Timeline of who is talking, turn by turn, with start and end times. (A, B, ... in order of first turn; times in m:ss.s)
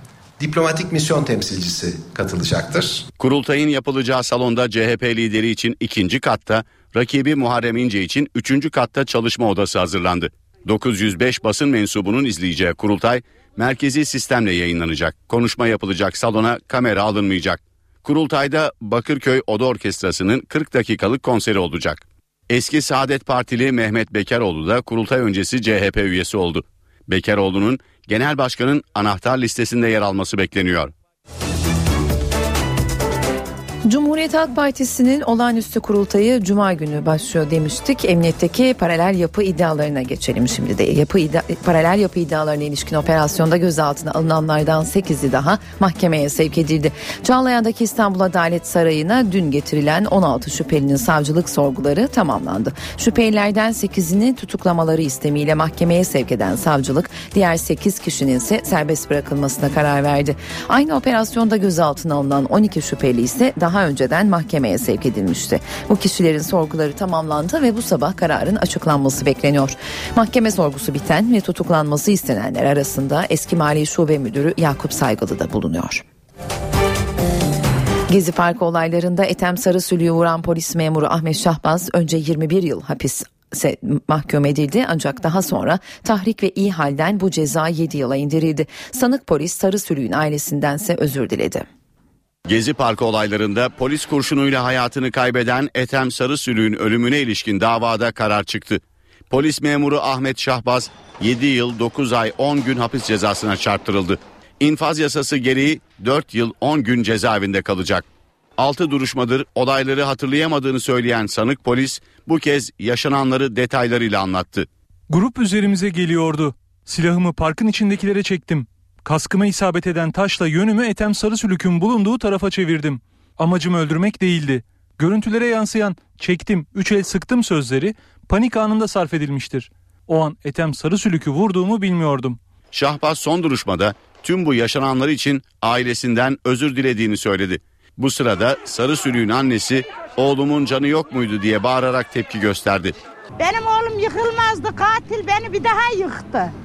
0:00.4-0:03.1 A
0:03.2-0:30.9 B
0:33.8-1:16.0 C
1:18.1-1:31.6 C
1:32.5-1:48.0 B
1:48.6-1:54.7 B
1:55.1-2:12.4 D
2:12.7-2:22.9 B
2:23.4-2:26.5 E